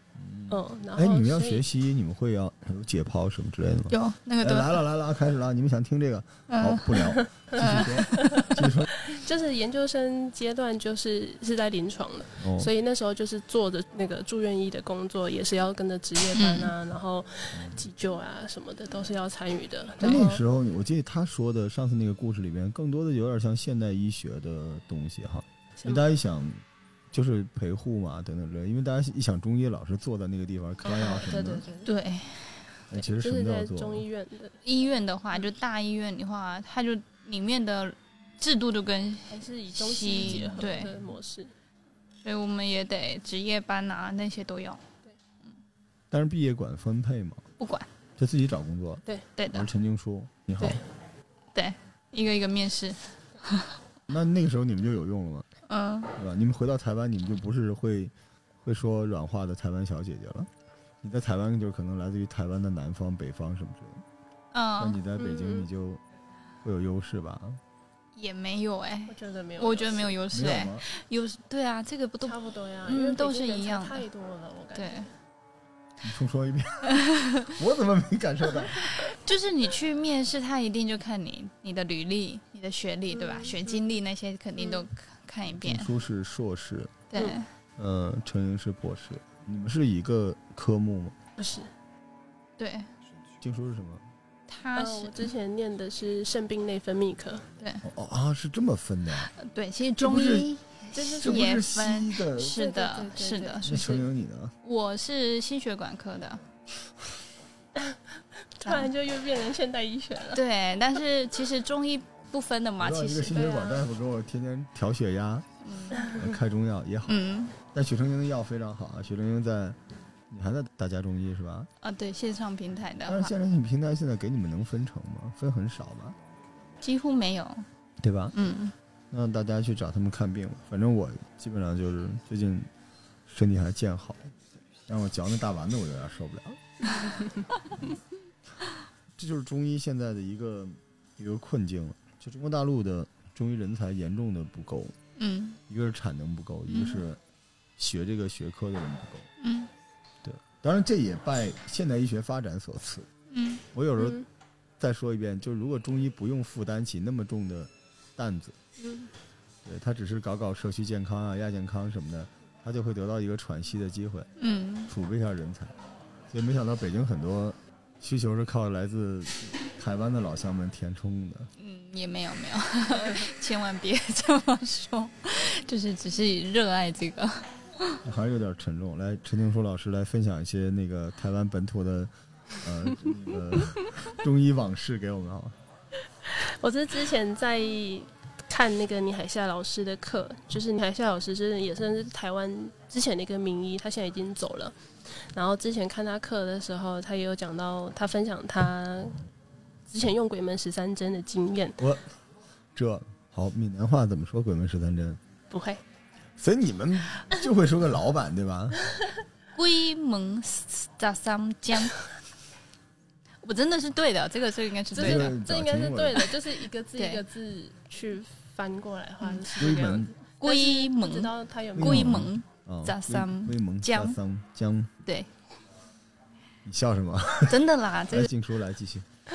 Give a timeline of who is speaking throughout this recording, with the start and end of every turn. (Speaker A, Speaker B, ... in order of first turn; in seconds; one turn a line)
Speaker A: 0.2-8.9
Speaker B: 0.5-1.6
Speaker C: 3.9-4.8
Speaker C: 6.5-8.1
Speaker B: 8.1-20.4
Speaker A: 12.4-12.7
Speaker C: 16.4-16.7
Speaker A: 20.0-26.6
Speaker B: 25.8-26.0
Speaker A: 27.1-31.6
Speaker B: 30.8-31.9
Speaker C: 31.8-32.6
Speaker A: 32.9-34.0
Speaker B: 33.2-34.6
Speaker C: 34.6-40.9
Speaker B: 39.3-41.5
Speaker C: 42.2-44.8
Speaker A: 46.1-47.4
Speaker C: 47.6-47.9
Speaker A: 48.2-50.8
Speaker C: 49.4-49.7
Speaker C: 51.5-53.8
Speaker A: 54.1-55.5
Speaker C: 55.7-56.2
Speaker A: 56.2-60.5
Speaker A: 61.0-64.0
Speaker C: 64.5-65.0
Speaker A: 64.8-66.0
Speaker B: 65.2-65.7
Speaker A: 66.6-67.6
Speaker C: 68.2-74.0
Speaker B: 69.1-70.1
Speaker A: 70.3-70.8
Speaker B: 72.2-75.1
Speaker C: 74.8-75.1
Speaker A: 76.0-79.1
Speaker C: 76.9-77.5
Speaker C: 79.1-85.9
Speaker B: 83.3-83.7
Speaker A: 85.6-87.0
Speaker C: 87.1-87.5
Speaker A: 87.8-91.2
Speaker B: 91.4-91.7
Speaker C: 92.6-92.9
Speaker A: 93.4-94.0
Speaker C: 94.5-95.3
Speaker B: 94.8-97.5
Speaker A: 97.8-99.3
Speaker C: 99.3-103.8
Speaker A: 100.0-100.5
Speaker B: 100.9-101.6
Speaker A: 101.2-102.6
Speaker B: 102.4-104.0
Speaker A: 103.7-104.5
Speaker C: 104.6-106.4
Speaker B: 108.6-110.4
Speaker C: 108.7-108.9
Speaker C: 110.3-113.6
Speaker A: 112.8-115.5
Speaker B: 113.3-113.9
Speaker C: 115.6-116.2
Speaker A: 116.1-119.8
Speaker C: 117.1-117.6
Speaker A: 120.3-121.7
Speaker C: 121.8-123.3
Speaker A: 123.1-126.2
Speaker C: 126.8-127.7
Speaker A: 128.0-128.3
Speaker C: 128.3-128.7
Speaker A: 129.1-132.7
Speaker A: 133.3-134.2
Speaker A: 134.9-136.6
Speaker A: 139.2-144.9
Speaker C: 145.2-145.6
Speaker A: 145.7-147.2
Speaker C: 146.7-147.0
Speaker A: 147.8-149.3
Speaker C: 149.4-149.7
Speaker A: 150.2-153.1
Speaker C: 153.3-153.6
Speaker A: 153.7-154.2
Speaker B: 154.0-154.3
Speaker A: 154.8-158.6
Speaker B: 158.8-159.1
Speaker A: 159.7-164.3
Speaker C: 164.4-164.9
Speaker A: 164.9-165.7
Speaker A: 166.3-171.5
Speaker C: 171.6-178.0
Speaker A: 178.0-185.6
Speaker B: 186.3-194.8
Speaker B: 195.3-199.2
Speaker B: 199.9-201.8
Speaker A: 201.8-202.1
Speaker A: 202.8-205.2
Speaker B: 205.5-205.8
Speaker A: 206.4-208.8
Speaker C: 209.6-212.1
Speaker C: 213.4-215.4
Speaker B: 214.9-222.2
Speaker A: 215.0-216.3
Speaker C: 219.2-224.2
Speaker A: 219.6-220.1
Speaker A: 221.8-224.9
Speaker A: 226.7-229.1
Speaker C: 227.5-228.3